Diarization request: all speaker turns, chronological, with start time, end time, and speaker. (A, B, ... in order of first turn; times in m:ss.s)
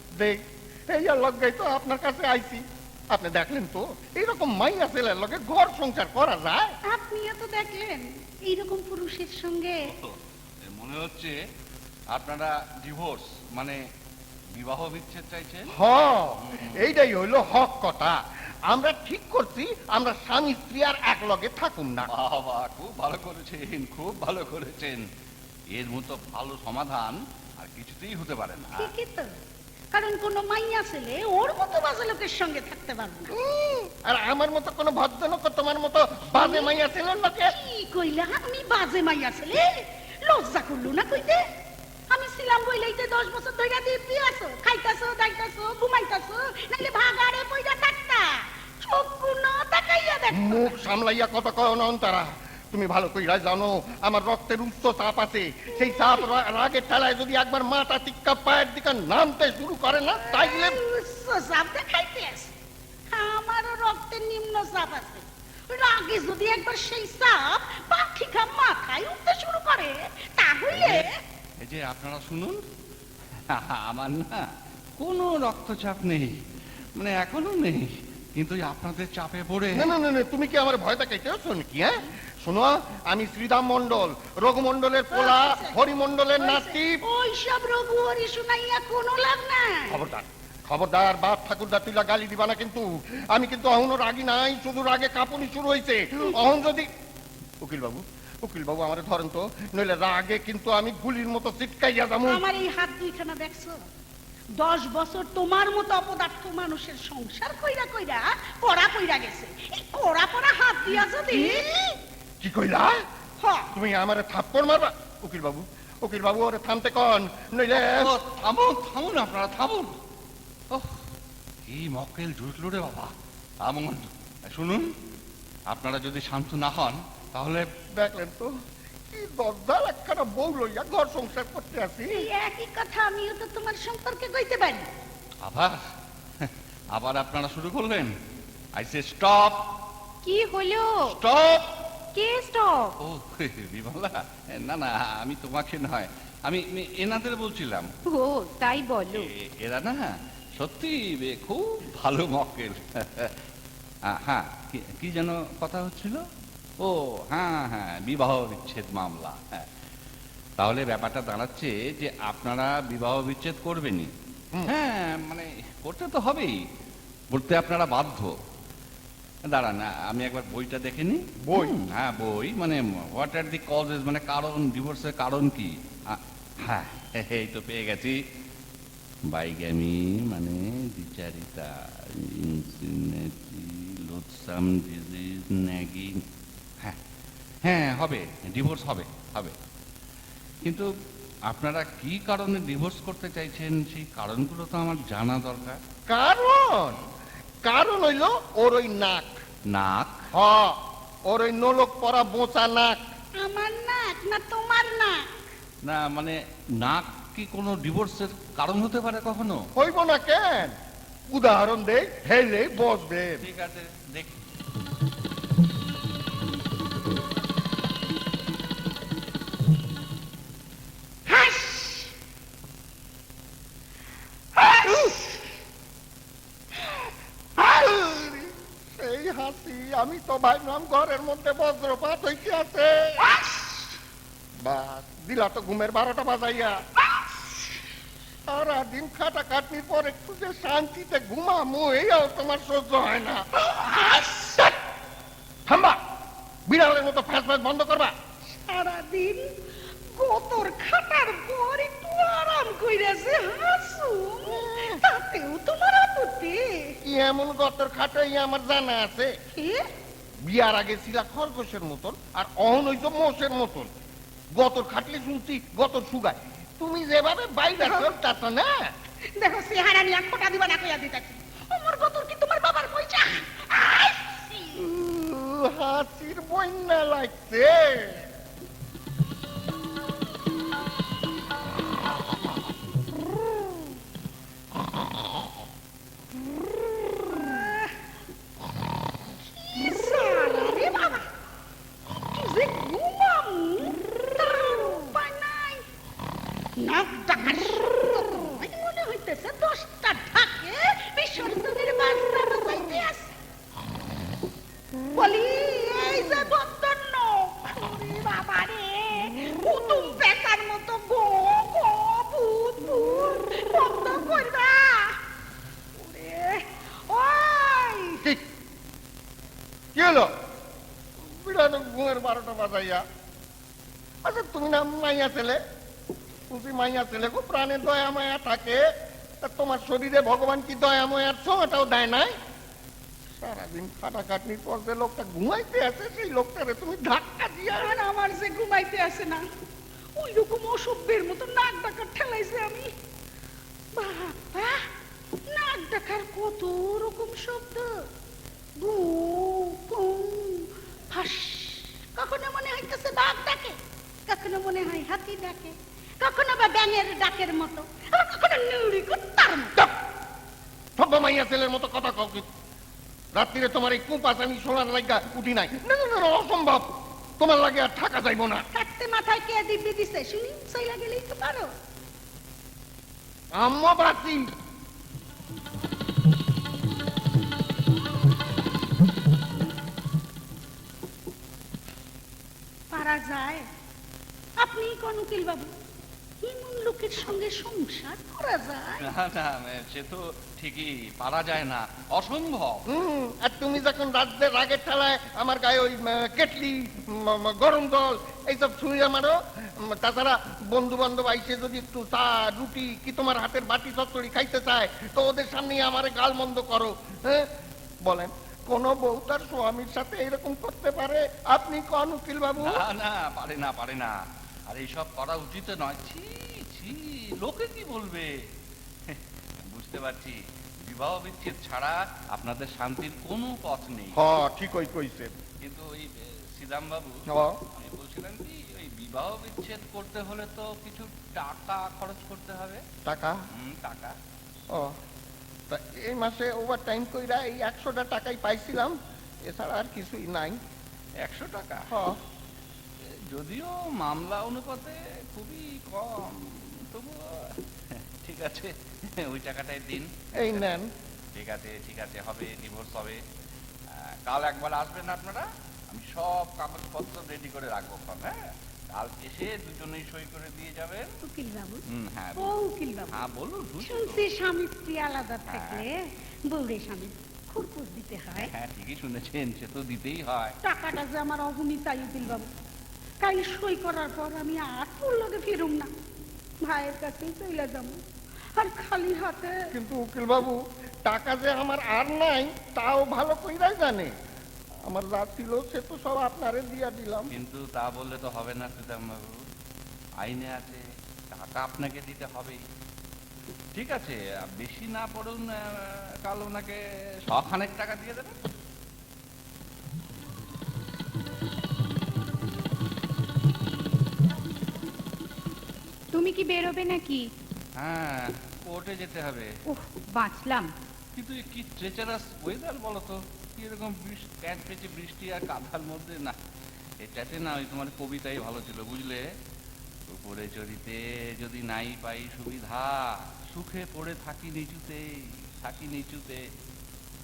0:00.2-0:06.7 A
0:06.9-0:09.8 B
0:09.8-0:10.2 C
0:10.7-0:11.3 C
0:12.1-0:13.8 C
0:14.6-0:15.7 C
0:15.7-0:22.1 A
0:16.4-0:16.9 C
0:22.0-0:25.0 C
0:25.7-0:28.9 C
0:28.8-0:29.3 B
0:29.9-0:33.4 B
0:33.3-0:37.5 A
0:36.3-0:36.7 B
0:37.4-0:41.4 B
0:42.1-0:50.8 B
0:50.3-1:00.8 A
0:55.8-0:56.2 B
1:00.1-1:02.5 B
1:03.1-1:11.1 B
1:10.7-1:11.1 C
1:11.6-1:12.6 C
1:13.5-1:16.4 C
1:17.0-1:19.9 C
1:19.7-1:27.0 A
1:25.1-1:25.8 B
1:26.4-1:30.0 B
1:29.9-1:36.9 A
1:37.6-1:42.4 A
1:42.2-1:43.8 B
1:44.6-1:51.9 B
1:50.9-1:51.7 A
1:52.4-1:53.0 A
1:53.4-1:53.7 B
1:53.7-1:58.1 A
1:57.7-2:00.0 C
2:00.7-2:01.0 C
2:01.6-2:03.1 C
2:03.6-2:04.9 C
2:05.7-2:07.7 C
2:07.9-2:08.5 A
2:09.1-2:12.2 A
2:12.1-2:14.9 B
2:15.4-2:15.8 C
2:16.4-2:18.1 C
2:18.8-2:19.6 C
2:20.2-2:21.1 D
2:21.0-2:21.7 C
2:22.1-2:23.0 D
2:23.0-2:27.9 C
2:28.1-2:29.3 D
2:29.1-2:33.3 C
2:34.0-2:36.2 C
2:36.8-2:39.6 C
2:40.6-2:44.1 C
2:44.6-2:46.6 C
2:47.3-2:48.3 C
2:49.5-2:58.2 C
2:51.4-2:51.8 A
2:59.3-3:06.2 C
3:07.6-3:09.5 C
3:11.5-3:15.8 C
3:16.1-3:17.0 A
3:17.6-3:19.4 A
3:19.7-3:20.2 C
3:20.3-3:20.7 A
3:21.3-3:23.0 A
3:23.4-3:25.2 B
3:25.8-3:29.7 C
3:29.8-3:30.7 A
3:31.3-3:33.4 A
3:33.4-3:34.4 C
3:41.3-3:42.1 B
3:44.9-3:45.1 A
3:47.6-3:53.4 A
3:54.6-3:56.8 A
3:58.5-4:03.4 A
4:03.8-4:04.6 B
4:05.7-4:06.0 A
4:06.7-4:08.1 A
4:08.5-4:09.4 B
4:10.2-4:17.0 B
4:14.5-4:15.0 A
4:17.0-4:19.3 A
4:19.5-4:19.8 B
4:20.4-4:23.9 A
4:24.5-4:28.9 A
4:27.8-4:28.1 B
4:29.4-4:34.8 B
4:34.8-4:38.2 A
4:47.3-4:47.9 B
4:49.5-4:51.3 B
4:52.1-4:55.8 B
4:56.8-5:03.3 B
5:05.1-5:15.2 B
5:16.0-5:18.2 B
5:19.9-5:20.3 A
5:21.2-5:23.0 A
5:24.2-5:25.6 A
5:26.5-5:28.8 A
5:29.4-5:32.3 A
5:33.4-5:38.0 A
5:37.7-5:39.4 B
5:40.2-5:42.9 B
5:43.9-5:44.8 B
5:45.5-5:47.9 B
5:48.8-5:59.8 B
6:01.0-6:02.4 A
6:03.3-6:06.9 A
6:07.4-6:08.6 A
6:08.7-6:11.7 B
6:13.5-6:14.4 A
6:22.9-6:23.6 B
6:24.6-6:25.7 B
6:26.4-6:29.0 B
6:29.0-6:32.8 C
6:32.9-6:47.5 A
6:48.0-6:52.8 A
6:52.6-6:54.2 C
6:54.7-6:58.3 C
6:59.1-7:04.2 C
7:04.1-7:05.3 A
7:05.6-7:12.8 C
7:07.3-7:07.6 A
7:13.0-7:13.4 A
7:13.5-7:14.2 C
7:15.7-7:19.0 A
7:19.5-7:20.6 A
7:21.2-7:21.9 C
7:21.9-7:22.2 A
7:23.0-7:30.7 C
7:30.3-7:30.9 A
7:31.3-7:33.2 C
7:34.2-7:38.4 C
7:38.9-7:41.2 C
7:41.2-7:41.8 B
7:41.9-7:42.6 C
7:42.4-7:43.1 B
7:43.1-7:44.3 C
7:43.8-7:48.5 B
7:45.5-7:45.8 C
7:48.4-7:50.6 C
7:50.6-7:52.5 B
7:53.2-7:55.9 B
7:56.6-7:58.0 B
7:58.6-7:59.6 B
7:59.7-8:04.1 A
8:04.9-8:07.3 A
8:07.3-8:09.4 C
8:10.2-8:10.8 C
8:11.3-8:12.6 C
8:13.7-8:18.4 C
8:26.1-8:27.2 D
8:27.8-8:29.5 C
8:29.7-8:30.7 D
8:31.1-8:36.4 C
8:37.0-8:39.2 C
8:40.1-8:46.4 C